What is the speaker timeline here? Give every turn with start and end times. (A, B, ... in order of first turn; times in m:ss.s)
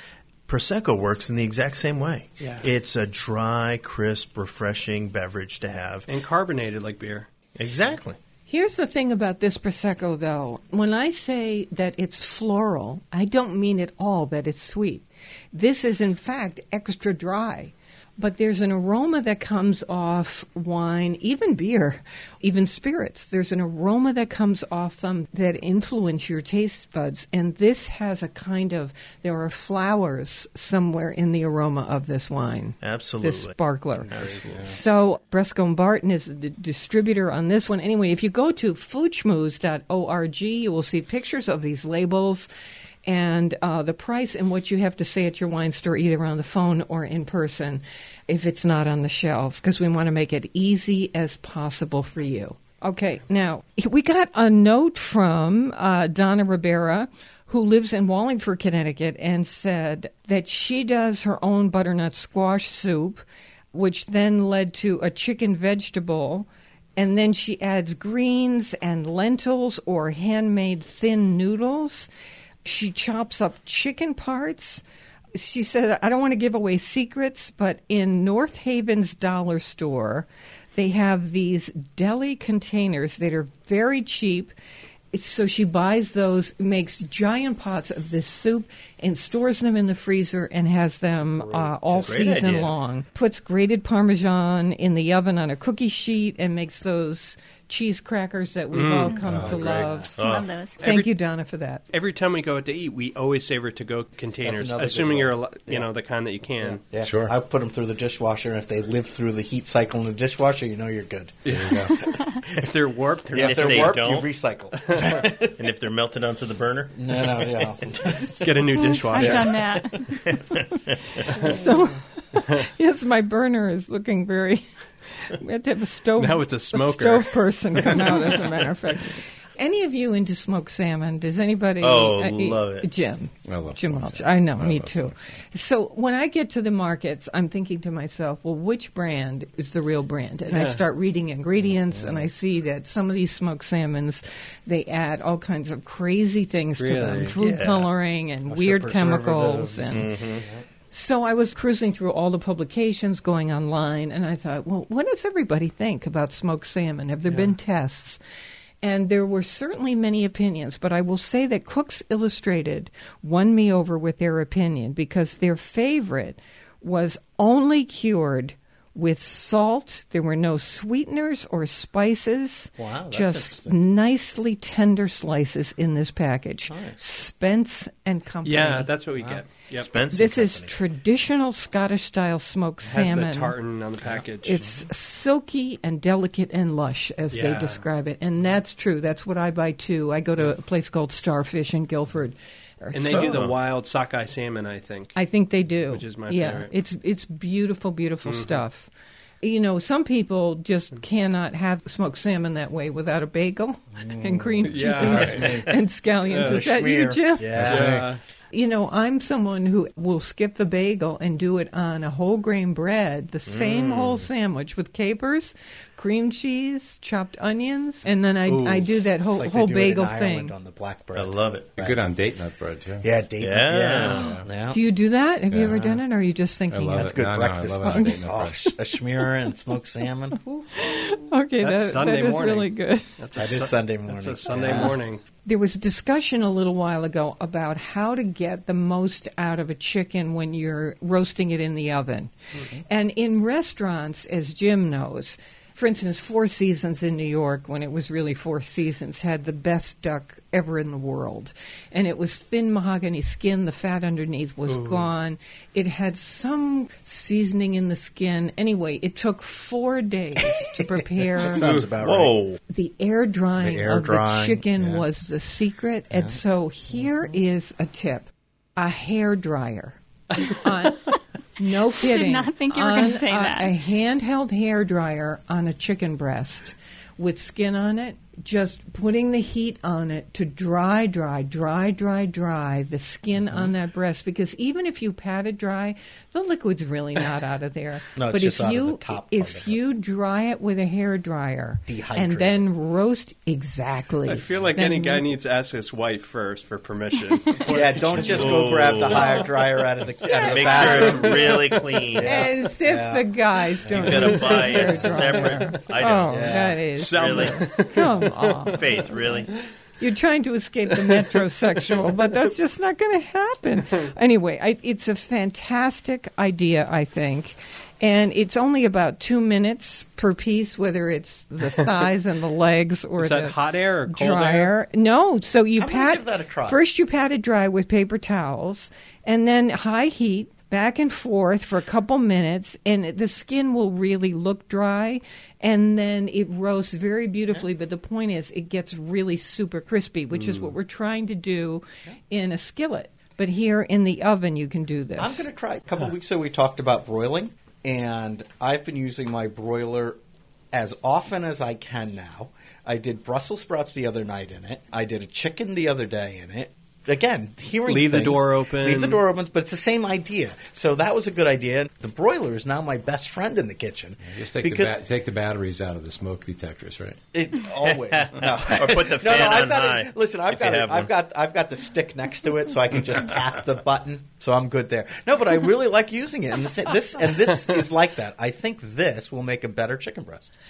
0:00.5-0:06.1 A
0:02.4-0:02.7 B
0:06.1-0:07.3 B
0:07.6-0:08.2 A
0:08.5-0:42.5 C
0:32.8-0:33.5 A
0:34.1-0:34.7 A
0:34.1-0:34.8 D
0:43.0-1:03.2 C
1:03.7-1:12.1 C
1:12.6-1:14.8 C
1:15.3-1:24.5 C
1:25.1-1:40.1 C
1:31.2-1:32.6 D
1:32.0-1:32.7 A
1:38.7-1:39.2 B
1:39.2-1:39.6 E
1:39.3-1:40.1 D
1:40.2-1:40.5 A
1:40.2-1:40.8 F
1:40.8-1:41.1 B
1:40.8-1:41.8 C
1:41.9-1:46.9 B
1:44.4-1:45.9 D
1:46.6-1:51.7 D
1:47.0-1:47.3 E
1:51.4-1:51.9 B
1:51.5-1:51.9 E
1:52.5-1:54.0 B
1:53.3-1:55.7 D
1:53.3-1:54.3 A
1:55.6-1:57.5 A
1:56.9-1:58.4 D
1:58.3-1:59.6 B
1:58.7-2:00.2 F
1:59.1-2:00.2 D
2:00.3-2:01.3 A
2:01.4-2:04.6 C
2:05.2-2:30.1 C
2:06.2-2:08.4 B
2:11.8-2:12.9 A
2:13.4-2:15.2 E
2:20.5-2:20.8 B
2:26.8-2:27.4 B
2:27.4-2:27.9 A
2:28.5-2:30.5 D
2:29.9-2:30.4 A
2:30.9-2:38.2 C
2:38.8-2:58.9 C
2:52.8-2:53.8 D
2:56.7-2:57.0 D
2:58.4-2:59.9 B
2:59.2-2:59.4 D
2:59.7-3:00.7 A
3:00.1-3:03.6 C
3:02.8-3:04.8 B
3:04.4-3:13.4 C
3:07.3-3:07.8 B
3:12.9-3:15.2 B
3:13.1-3:13.5 A
3:15.1-3:18.9 C
3:15.9-3:16.7 B
3:18.2-3:18.6 B
3:19.4-3:27.6 C
3:23.9-3:25.8 D
3:24.6-3:25.6 B
3:26.3-3:26.6 B
3:26.3-3:28.1 D
3:27.5-3:28.1 E
3:27.6-3:28.2 B
3:28.5-3:40.5 C
3:33.4-3:34.3 A
3:38.5-3:42.0 D
3:41.1-3:41.7 A
3:41.8-3:43.1 E
3:43.0-3:44.8 D
3:43.4-3:44.3 A
3:44.2-3:44.4 E
3:44.7-3:47.2 C
3:45.5-3:46.0 E
3:46.7-3:48.6 E
3:47.0-3:50.7 D
3:47.8-3:48.2 C
3:50.7-3:53.1 C
3:51.6-3:55.2 B
3:53.3-3:55.0 D
3:55.4-4:21.6 C
4:14.6-4:15.1 B
4:20.8-4:22.4 D
4:21.6-4:21.9 B
4:22.0-4:22.6 A
4:22.7-4:55.2 C
4:23.6-4:25.0 D
4:26.1-4:26.4 D
4:31.9-4:33.7 F
4:43.4-4:43.7 D
4:48.2-4:49.8 D
4:51.9-4:52.7 D
4:54.2-4:58.8 B
4:57.6-5:05.0 D
4:58.2-4:59.4 A
5:00.3-5:01.4 B
5:00.3-5:02.4 A
5:02.2-5:08.8 C
5:03.9-5:06.5 A
5:06.3-5:06.8 D
5:06.9-5:08.7 B
5:07.1-5:08.0 A
5:08.6-5:09.5 A
5:10.0-5:45.4 C
5:23.2-5:24.7 B
5:25.8-5:26.8 D
5:40.3-5:40.7 B
5:45.2-5:50.2 D
5:50.7-6:05.0 D
5:57.8-5:59.2 B
6:04.3-6:07.2 E
6:07.3-6:20.5 D
6:07.8-6:11.1 A